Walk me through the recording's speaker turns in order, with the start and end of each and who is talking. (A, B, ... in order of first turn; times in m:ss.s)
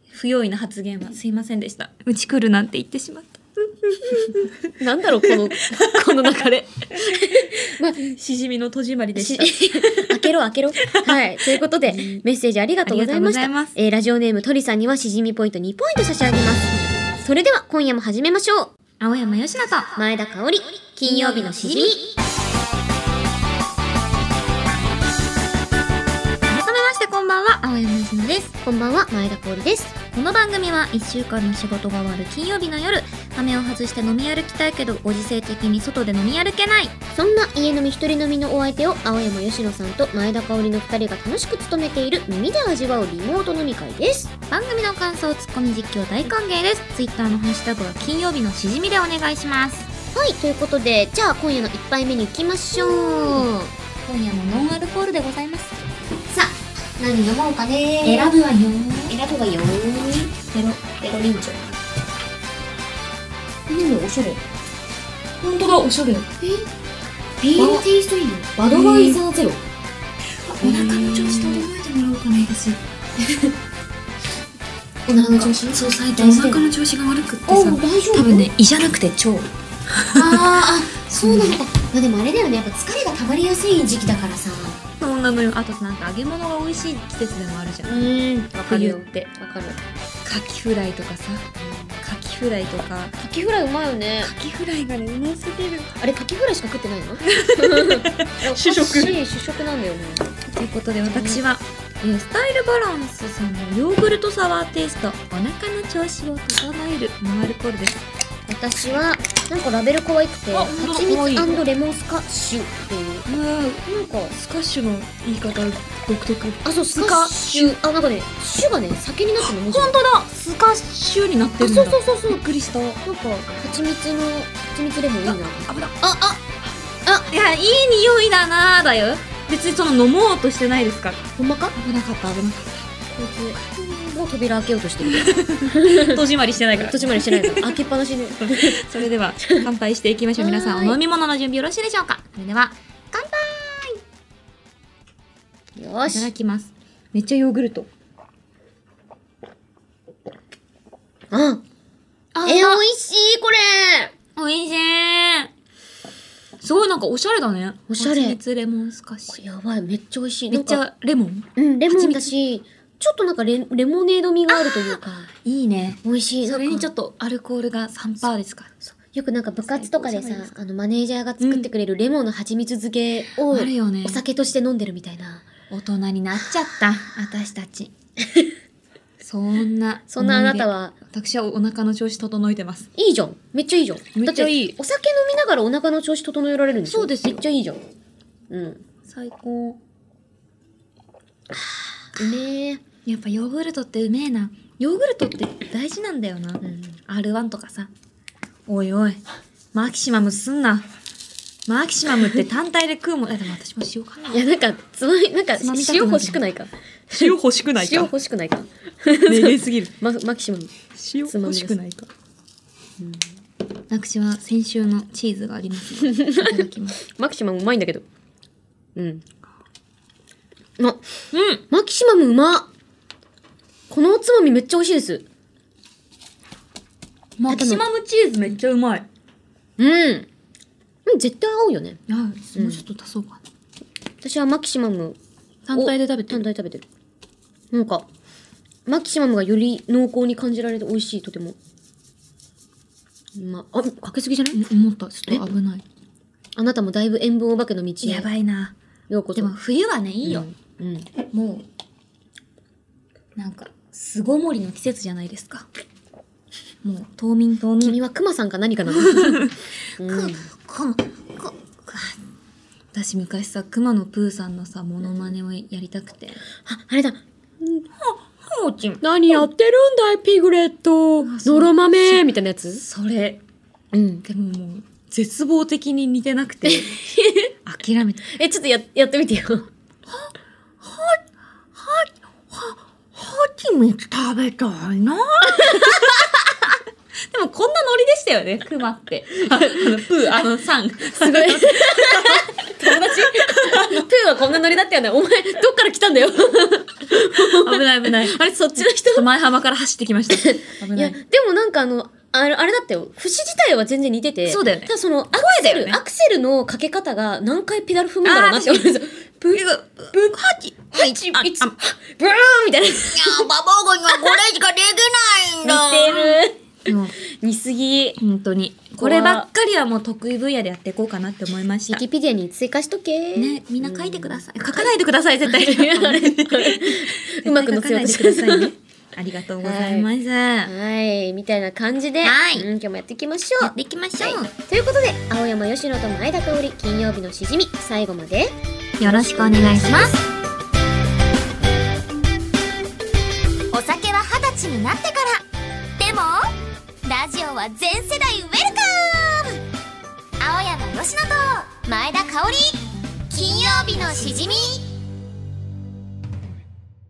0:00.1-0:04.6 A
0:04.2-0:08.0 B
0:05.2-0:10.2 A
0:09.2-0:18.7 B
0:10.8-0:12.2 A
0:12.8-0:13.8 A
0:19.0-0:20.0 A
0:20.0-0:22.0 B
0:21.0-0:22.0 A
0:26.4-0:28.5 A
0:28.6-0:29.9 B
0:30.1-0:36.9 A
0:37.1-0:44.3 B
0:44.5-0:49.9 A
0:50.1-0:53.5 B
0:52.7-0:55.8 A
0:56.3-0:58.3 B
0:58.0-0:59.2 A
0:59.1-1:00.3 B
1:00.5-1:01.0 A
1:00.9-1:01.6 B
1:03.7-1:04.4 B
1:05.4-1:06.3 A
1:06.4-1:06.7 B
1:07.4-1:09.6 B
1:07.6-1:07.8 A
1:08.6-1:09.2 A
1:10.5-1:12.8 A
1:10.6-1:11.6 B
1:13.2-1:13.5 B
1:15.1-1:16.6 B
1:15.1-1:20.6 A
1:17.5-1:18.5 B
1:20.1-1:24.8 B
1:21.2-1:21.6 A
1:25.0-1:29.3 A
1:27.8-1:29.8 B
1:30.2-1:31.5 A
1:31.6-1:32.0 B
1:32.0-1:33.1 A
1:33.2-1:34.3 B
1:34.2-1:35.9 A
1:36.0-1:40.4 B
1:37.2-1:39.2 A
1:40.5-1:48.1 A
1:41.0-1:41.4 B
1:48.5-1:53.3 B
1:50.5-1:51.6 A
1:53.3-1:57.8 A
1:56.6-2:00.0 B
1:59.4-2:03.0 A
2:01.6-2:02.4 B
2:03.0-2:06.4 B
2:05.2-2:06.0 A
2:07.3-2:12.7 A
2:11.4-2:11.8 B
2:13.1-2:16.2 B
2:15.1-2:17.8 A
2:16.7-2:18.8 B
2:18.4-2:23.5 A
2:19.4-2:19.6 B
2:20.4-2:21.0 B
2:25.8-2:26.3 B
2:26.1-2:27.9 A
2:31.3-2:31.6 B
2:32.3-2:32.8 A
2:32.4-2:34.1 B
2:34.4-2:35.5 A
2:36.6-2:39.4 A
2:37.9-2:38.4 B
2:39.3-2:40.8 B
2:40.5-2:42.3 A
2:41.6-2:45.3 B
2:44.6-2:48.7 A
2:46.0-2:46.9 B
2:48.8-2:55.4 B
2:49.6-2:50.5 A
2:51.4-2:51.7 A
2:53.5-2:54.2 A
2:55.7-2:57.9 A
2:58.2-2:58.5 B
2:59.2-3:02.9 A
3:00.1-3:01.0 B
3:03.0-3:07.8 B
3:04.1-3:04.8 A
3:06.8-3:07.4 A
3:08.5-3:08.8 B
3:09.0-3:09.8 A
3:12.1-3:12.8 B
3:13.0-3:17.9 A
3:16.6-3:17.0 B
3:18.7-3:19.2 A
3:19.7-3:20.9 A
3:21.7-3:24.4 A
3:24.3-3:30.7 B
3:25.6-3:26.4 A
3:27.1-3:28.1 A
3:29.2-3:29.9 A
3:30.9-3:32.1 A
3:31.3-3:31.8 B
3:33.0-3:33.3 B
3:33.9-3:37.0 A
3:36.1-3:38.0 B
3:39.0-3:39.2 B
3:41.3-3:41.6 A
3:41.7-3:42.7 B
3:43.9-3:45.2 B
3:47.4-3:49.0 A
3:47.5-3:47.8 B
3:49.8-3:50.3 B
3:51.0-3:52.0 B
3:52.1-3:53.4 A
3:52.5-3:52.8 B
3:54.2-3:55.2 B
3:55.7-3:56.4 A
3:55.7-3:56.8 B
3:57.7-3:58.0 B
3:58.8-4:01.6 B
4:03.4-4:04.6 B
4:04.5-4:05.8 A
4:06.6-4:08.3 B
4:08.0-4:08.7 A
4:09.1-4:09.5 B
4:09.3-4:10.4 A
4:10.2-4:11.1 B
4:11.3-4:11.6 A
4:13.4-4:15.7 A
4:16.8-4:18.0 A
4:17.8-4:19.4 B
4:18.9-4:22.2 A
4:20.0-4:20.5 B
4:22.9-4:26.4 A
4:26.6-4:27.8 B
4:28.0-4:29.5 A
4:29.0-4:32.8 B
4:31.2-4:33.4 A
4:33.9-4:34.2 B
4:34.2-4:37.0 A
4:36.6-4:37.5 B
4:37.6-4:38.3 A
4:38.3-4:39.7 B
4:40.1-4:41.2 A
4:41.7-4:46.3 A
4:45.5-4:46.3 B
4:47.3-4:54.1 A
4:49.5-4:49.8 B
4:51.2-4:59.3 B
4:57.2-5:01.2 A
5:00.3-5:09.6 B
5:04.5-5:06.0 A
5:08.2-5:08.9 A
5:09.5-5:11.7 A
5:10.9-5:13.5 B
5:13.2-5:17.2 A
5:14.1-5:14.4 B
5:15.6-5:16.6 B
5:17.2-5:18.2 B
5:18.2-5:22.0 A
5:19.0-5:19.5 B
5:21.9-5:28.7 B
5:23.3-5:30.7 A
5:29.6-5:30.1 B
5:30.6-5:40.2 B
5:32.2-5:32.6 A
5:33.6-5:34.5 A
5:39.0-5:40.2 A
5:43.7-5:45.4 C
5:46.0-5:46.5 C
5:47.0-5:49.6 C
5:50.4-5:54.9 C